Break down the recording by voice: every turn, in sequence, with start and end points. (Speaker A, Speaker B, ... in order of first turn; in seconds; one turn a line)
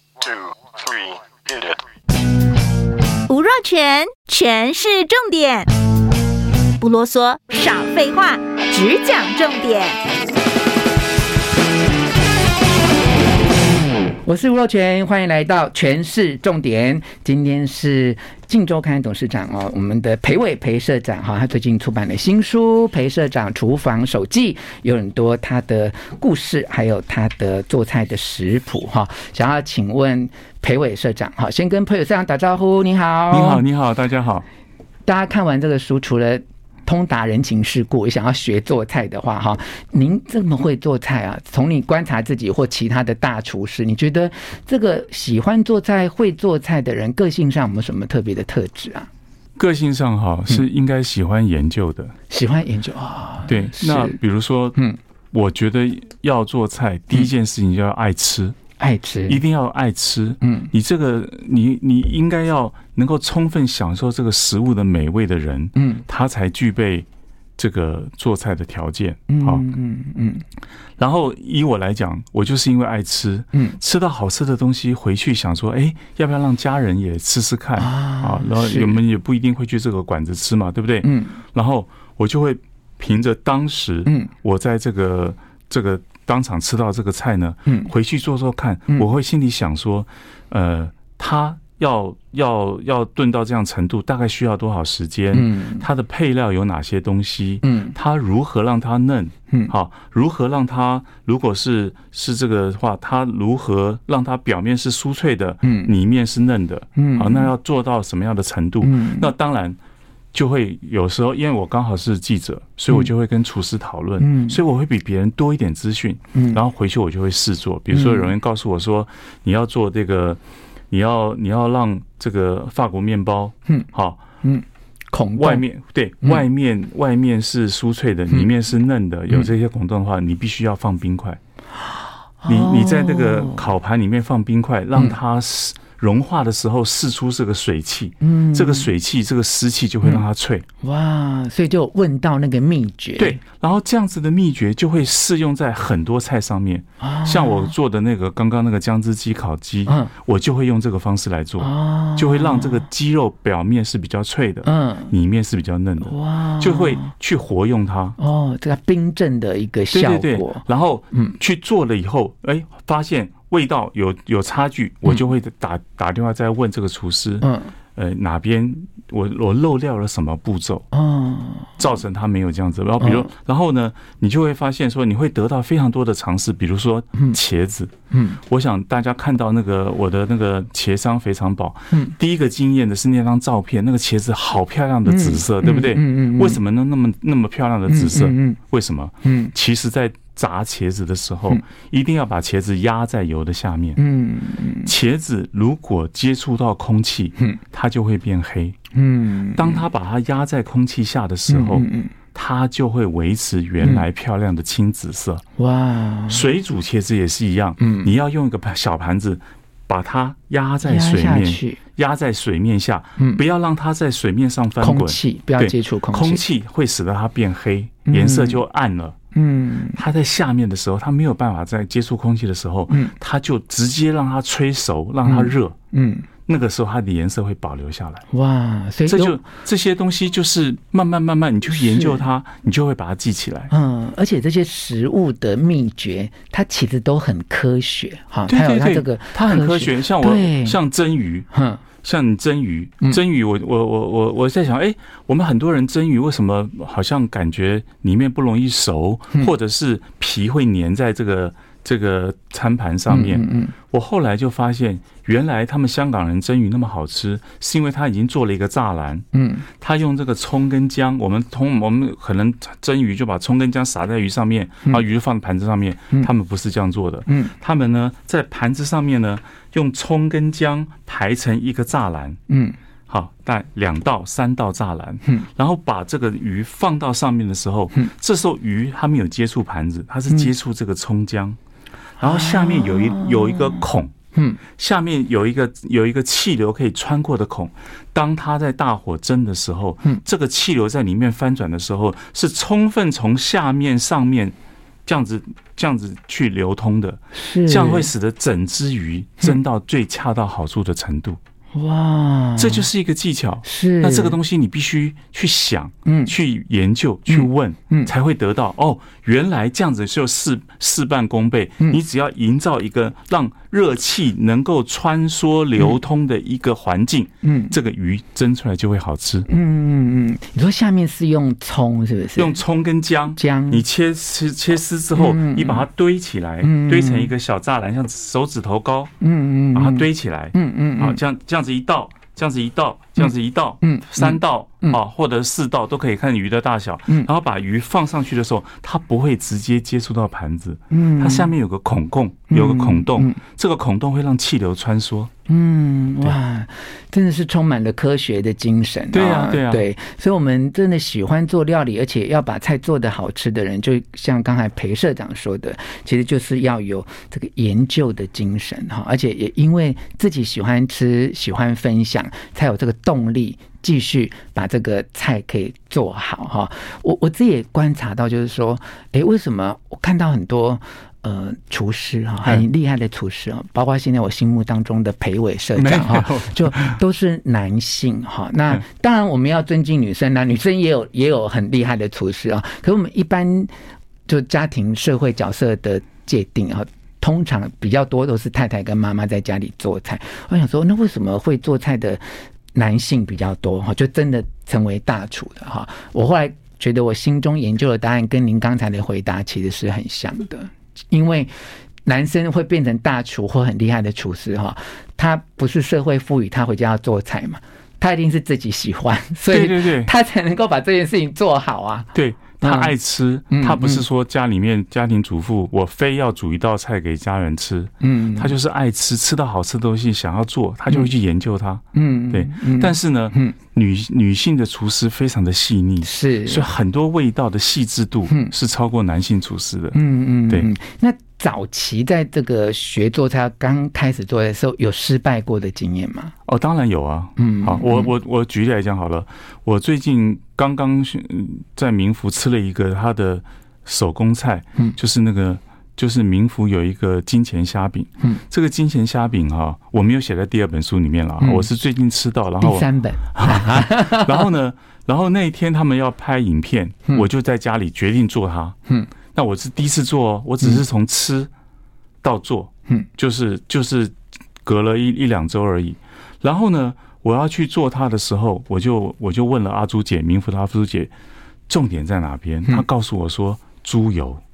Speaker A: 3.3-5.7
Speaker A: 6.8-10.0
Speaker B: 14.2-33.6
Speaker C: 33.3-34.5
Speaker B: 35.1-49.1
Speaker C: 49.6-52.1
Speaker B: 52.3-54.2
Speaker C: 53.5-54.8
Speaker C: 55.3-58.6
Speaker B: 58.8-59.4
Speaker C: 59.3-69.6
Speaker B: 60.4-60.7
Speaker B: 65.8-66.0
Speaker B: 69.3-70.4
Speaker C: 71.0-109.8
Speaker B: 77.8-79.0
Speaker B: 81.0-81.4
Speaker B: 84.1-84.3
Speaker B: 87.7-87.9
Speaker B: 95.3-95.8
Speaker B: 97.6-97.9
Speaker B: 105.6-105.9
Speaker B: 107.0-107.5
Speaker B: 108.8-109.3
Speaker C: 110.3-120.4
Speaker B: 114.2-114.6
Speaker B: 116.3-116.6
Speaker B: 117.9-118.3
Speaker C: 120.9-124.2
Speaker B: 124.4-125.6
Speaker C: 125.3-131.4
Speaker B: 132.4-133.7
Speaker C: 132.5-140.7
Speaker B: 138.2-138.9
Speaker B: 140.8-143.4
Speaker C: 143.2-158.2
Speaker B: 147.0-147.8
Speaker B: 149.9-150.1
Speaker B: 151.6-152.8
Speaker B: 154.7-155.1
Speaker B: 156.0-157.1
Speaker B: 158.2-161.4
Speaker C: 159.9-170.8
Speaker B: 167.4-167.8
Speaker B: 170.9-171.8
Speaker C: 171.8-177.9
Speaker B: 173.0-173.3
Speaker B: 178.1-178.4
Speaker C: 178.5-194.0
Speaker B: 185.1-186.6
Speaker B: 187.9-188.6
Speaker B: 189.2-189.5
Speaker B: 194.0-194.9
Speaker C: 194.8-198.8
Speaker B: 198.9-199.8
Speaker C: 199.5-205.4
Speaker B: 201.5-202.1
Speaker B: 205.6-206.5
Speaker C: 206.3-219.2
Speaker B: 207.8-208.1
Speaker B: 210.8-211.8
Speaker B: 213.2-213.4
Speaker B: 214.8-216.4
Speaker B: 218.1-218.6
Speaker B: 219.3-220.0
Speaker C: 219.9-225.8
Speaker B: 225.2-226.3
Speaker C: 226.5-228.2
Speaker B: 228.3-229.4
Speaker C: 229.1-233.7
Speaker B: 231.7-232.3
Speaker B: 233.7-240.8
Speaker C: 238.5-241.5
Speaker B: 241.5-241.8
Speaker C: 242.0-259.2
Speaker B: 253.1-253.7
Speaker B: 259.3-259.6
Speaker C: 259.8-272.4
Speaker B: 267.3-267.5
Speaker B: 272.5-272.8
Speaker C: 273.1-281.6
Speaker B: 282.2-283.8
Speaker C: 282.2-284.1
Speaker B: 284.3-284.6
Speaker C: 284.8-294.6
Speaker C: 295.1-301.4
Speaker B: 297.3-298.1
Speaker B: 301.7-302.9
Speaker C: 302.6-319.5
Speaker B: 303.6-304.4
Speaker B: 306.1-306.3
Speaker B: 307.3-308.1
Speaker B: 317.4-317.8
Speaker B: 319.5-322.6
Speaker C: 322.4-329.1
Speaker B: 323.4-323.8
Speaker B: 325.1-325.9
Speaker B: 326.6-327.3
Speaker B: 329.2-331.2
Speaker C: 329.7-345.3
Speaker B: 333.8-335.0
Speaker B: 340.9-341.5
Speaker B: 342.5-343.4
Speaker B: 345.5-383.7
Speaker C: 349.1-349.9
Speaker C: 375.8-377.0
Speaker B: 384.3-392.2
Speaker B: 392.7-401.5
Speaker B: 402.1-412.9
Speaker C: 409.5-410.1
Speaker C: 412.1-430.7
Speaker B: 413.5-414.1
Speaker B: 418.0-418.6
Speaker B: 421.9-423.6
Speaker B: 426.0-426.7
Speaker B: 429.9-436.3
Speaker C: 436.4-458.8
Speaker B: 437.4-438.1
Speaker B: 451.4-451.7
Speaker B: 452.6-454.5
Speaker C: 459.4-461.5
Speaker C: 462.2-471.1
Speaker C: 471.7-474.4